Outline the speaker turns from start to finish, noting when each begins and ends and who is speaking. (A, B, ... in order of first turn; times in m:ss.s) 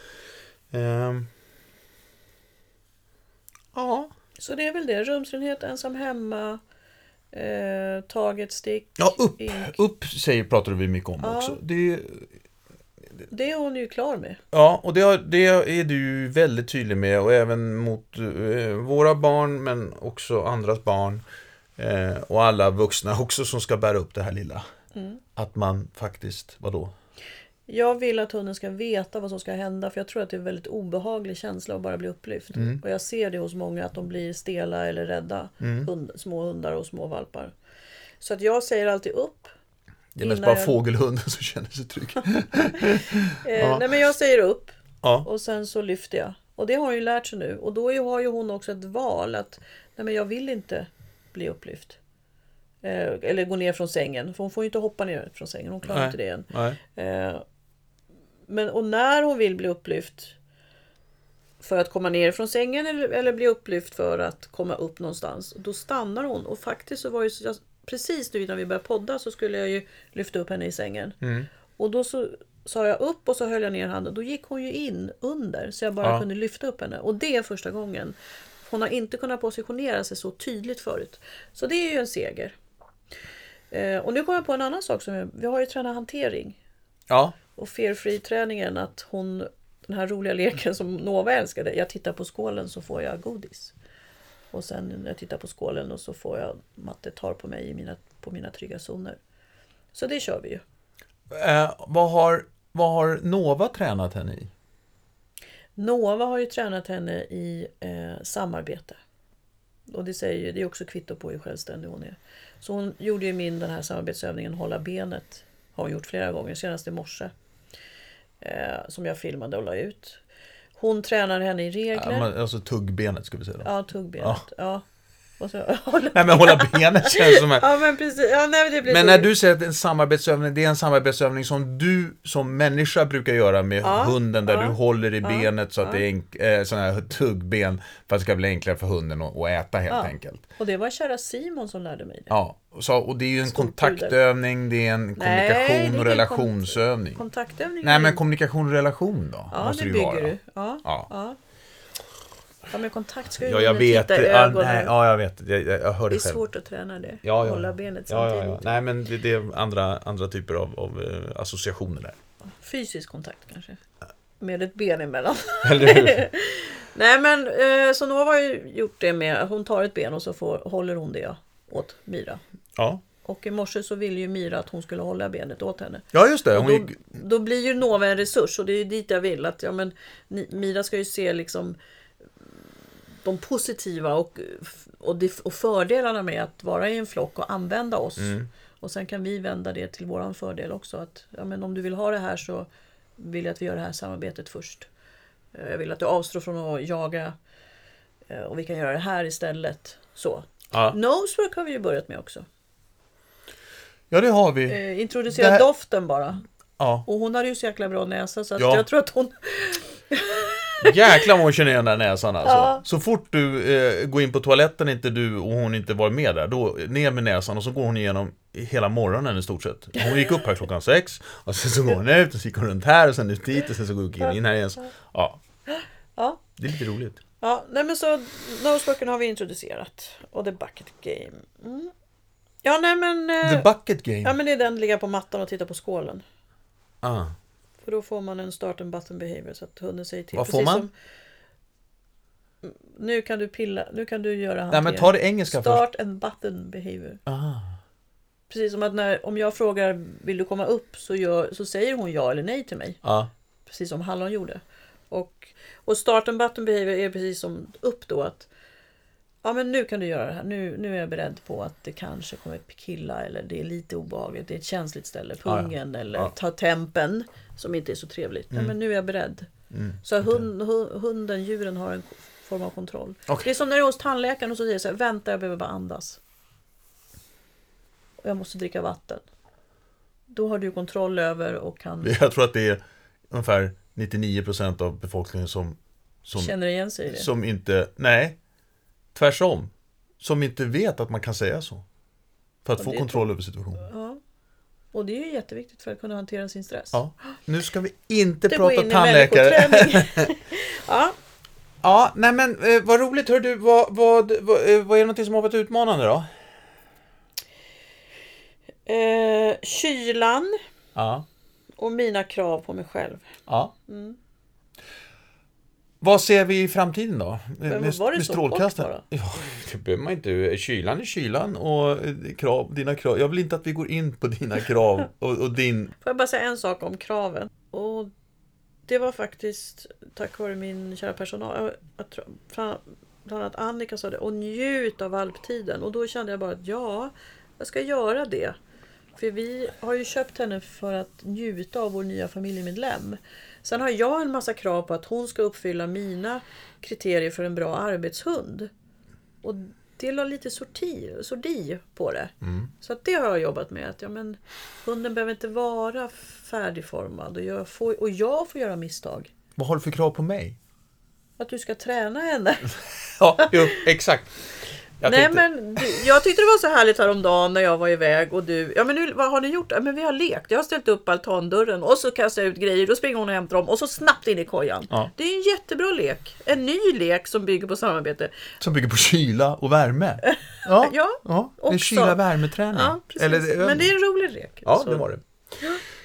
0:00.7-0:01.3 A
0:03.7-0:04.1 A
0:04.4-0:06.6 B
0:07.3-0:09.8 B
0:09.0-0:12.3 A
0:11.2-0:11.6 B
0:13.3-0:14.4 B
0:14.5-0:21.2 A
0:21.8-0:24.6 A
0:24.9-0:25.2 B
0:25.4-0:26.9 A
0:27.7-0:37.5 B
0:32.5-0:32.8 A
0:35.6-0:35.9 A
0:38.2-0:39.5 B
0:40.1-0:43.9 A
0:40.2-0:40.8 B
0:42.8-0:52.0 B
0:52.8-0:57.4 B
0:55.8-0:56.8 A
0:58.5-1:00.4 B
1:01.6-1:11.2 B
1:11.2-1:11.5 A
1:11.8-1:22.5 B
1:23.7-1:26.6 B
1:27.1-1:27.4 A
1:27.6-1:33.7 B
1:34.5-1:39.2 B
1:39.9-1:40.6 B
1:41.3-1:44.5 A
1:45.8-1:49.0 B
1:49.9-1:57.3 B
1:58.4-2:00.2 B
2:00.8-2:02.3 B
2:01.9-2:03.7 A
2:03.6-2:04.8 B
2:05.4-2:09.3 B
2:06.1-2:07.7 A
2:08.8-2:20.4 A
2:13.8-2:16.0 B
2:19.9-2:22.3 B
2:22.3-2:27.2 A
2:23.4-2:24.2 B
2:25.2-2:28.2 B
2:27.8-2:31.1 A
2:29.5-2:31.4 B
2:32.7-2:34.9 B
2:33.4-2:36.4 A
2:36.1-2:38.6 B
2:37.2-2:42.2 A
2:42.6-2:43.8 B
2:44.4-2:52.4 B
2:45.6-2:46.3 A
2:52.8-2:53.0 A
2:53.2-3:01.8 B
2:56.1-2:57.0 A
3:03.2-3:14.9 B
3:08.2-3:08.5 A
3:15.5-3:17.3 B
3:18.3-3:22.4 B
3:24.1-3:24.8 A
3:24.7-3:26.4 B
3:25.3-3:25.6 A
3:26.8-3:27.0 A
3:27.0-3:31.0 B
3:28.6-3:28.8 A
3:30.8-3:45.4 A
3:32.4-3:32.8 B
3:45.7-3:46.4 B
3:46.6-3:47.2 A
3:47.4-3:51.9 B
3:52.6-3:53.7 B
3:53.4-3:54.3 A
3:54.2-3:56.2 B
3:57.0-3:57.3 A
3:57.8-4:00.9 B
4:00.3-4:00.9 A
4:02.6-4:07.2 B
4:04.7-4:05.8 A
4:07.3-4:07.7 A
4:08.5-4:13.0 B
4:13.0-4:13.3 A
4:13.6-4:18.5 B
4:19.4-4:29.5 B
4:25.4-4:26.3 A
4:29.7-4:30.4 A
4:30.0-4:36.2 B
4:38.2-4:39.2 B
4:40.3-4:42.1 B
4:42.0-4:46.5 A
4:46.4-4:47.3 B
4:47.1-4:48.4 A
4:49.1-4:51.8 A
4:52.6-4:53.9 A
4:52.8-4:53.2 B
4:53.8-4:54.2 B
4:54.9-4:57.0 B
4:56.9-5:00.3 A
4:58.5-5:01.1 B
5:01.8-5:06.3 A
5:08.8-5:10.6 B
5:10.9-5:11.2 A
5:11.8-5:13.3 B
5:13.5-5:13.7 A
5:13.9-5:14.2 B
5:16.0-5:25.9 A
5:17.7-5:19.0 B
5:26.0-5:28.1 B
5:28.9-5:38.6 B
5:39.2-5:48.7 B
5:49.4-5:59.3 B
5:52.4-5:52.7 A
5:59.6-6:00.6 A
6:01.4-6:02.8 B
6:03.2-6:04.3 A
6:03.4-6:03.8 B
6:05.0-6:06.0 A
6:05.0-6:18.3 B
6:18.6-6:23.9 A
6:20.5-6:22.2 B
6:22.7-6:25.0 B
6:24.6-6:25.2 A